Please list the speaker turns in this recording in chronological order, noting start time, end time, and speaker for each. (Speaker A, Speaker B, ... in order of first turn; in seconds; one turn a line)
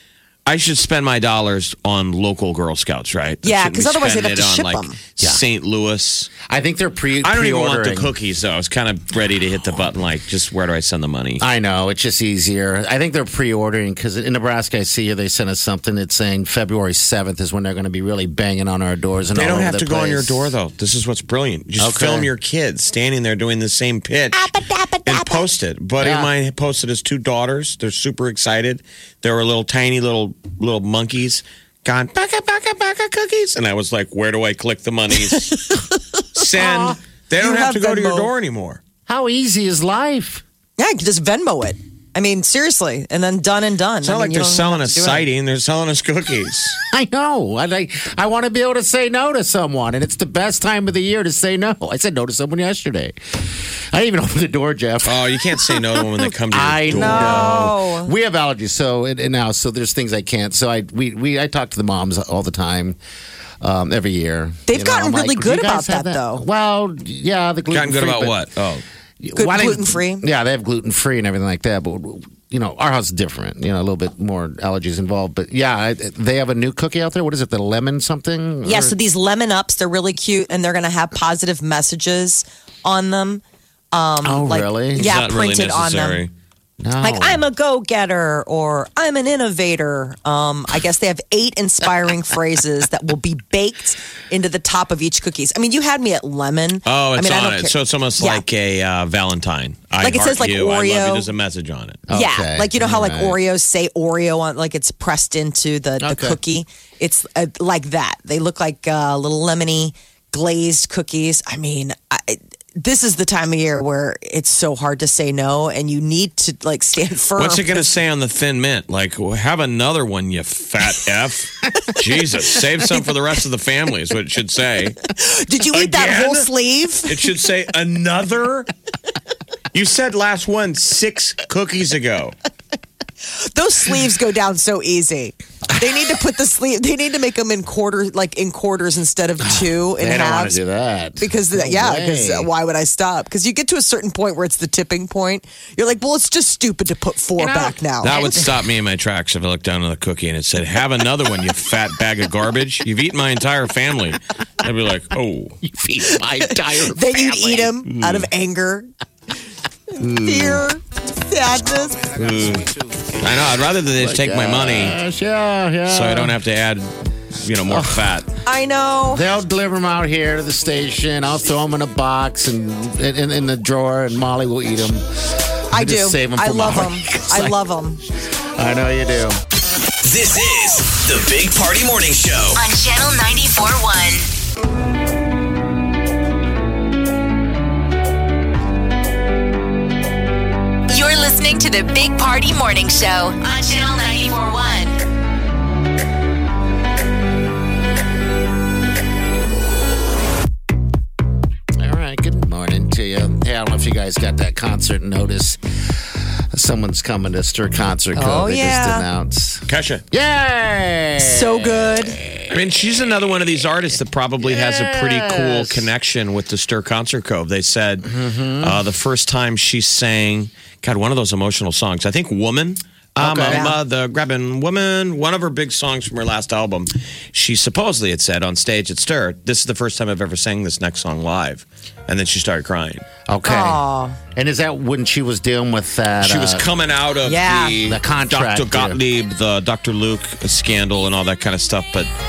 Speaker A: 0.5-6.3
Speaker B: 3.4-5.0
Speaker C: 6.4-8.1
Speaker A: 7.2-11.4
Speaker C: 11.4-20.5
Speaker A: 19.3-24.5
Speaker C: 21.8-22.3
Speaker B: 24.3-25.4
Speaker A: 25.0-35.6
Speaker C: 26.0-26.3
Speaker B: 35.3-36.0
Speaker A: 36.3-38.8
Speaker C: 36.5-37.0
Speaker B: 37.4-38.3
Speaker C: 39.1-40.4
Speaker B: 40.8-45.3
Speaker A: 44.0-46.8
Speaker C: 46.8-53.2
Speaker C: 53.9-63.0
Speaker A: 55.0-57.6
Speaker B: 56.9-58.1
Speaker C: 63.6-68.4
Speaker B: 64.7-66.5
Speaker A: 67.7-68.8
Speaker C: 69.2-79.0
Speaker B: 69.3-70.2
Speaker B: 78.6-86.2
Speaker C: 84.2-85.1
Speaker A: 84.9-86.3
Speaker C: 86.8-87.5
Speaker B: 87.0-98.4
Speaker A: 96.8-102.0
Speaker B: 100.0-101.3
Speaker C: 102.1-103.4
Speaker B: 102.1-117.9
Speaker C: 106.0-106.4
Speaker A: 117.3-125.0
Speaker B: 125.1-127.3
Speaker A: 125.7-126.5
Speaker A: 127.0-128.7
Speaker A: 129.7-132.3
Speaker B: 133.3-140.6
Speaker C: 139.4-142.5
Speaker B: 141.2-148.4
Speaker C: 147.4-148.5
Speaker A: 148.0-155.6
Speaker C: 155.6-157.8
Speaker B: 156.1-158.9
Speaker A: 157.8-158.3
Speaker C: 159.9-160.7
Speaker B: 160.2-162.1
Speaker A: 162.2-165.0
Speaker C: 162.3-162.6
Speaker C: 164.0-166.4
Speaker A: 165.9-168.3
Speaker C: 167.7-168.1
Speaker B: 168.4-169.2
Speaker C: 169.1-175.0
Speaker C: 175.7-177.5
Speaker B: 175.7-178.0
Speaker C: 178.5-179.4
Speaker D: 180.1-182.4
Speaker E: 182.5-184.3
Speaker E: 190.9-194.9
Speaker C: 201.8-205.6
Speaker C: 206.5-212.6
Speaker B: 208.1-209.1
Speaker A: 209.7-210.0
Speaker B: 211.2-212.2
Speaker A: 212.5-233.0
Speaker C: 214.4-215.9
Speaker C: 218.0-218.8
Speaker C: 223.2-223.7
Speaker B: 223.5-223.8
Speaker C: 233.3-233.8
Speaker B: 233.4-234.2
Speaker C: 234.3-236.7
Speaker A: 236.2-242.1
Speaker B: 237.2-237.8
Speaker C: 237.8-239.0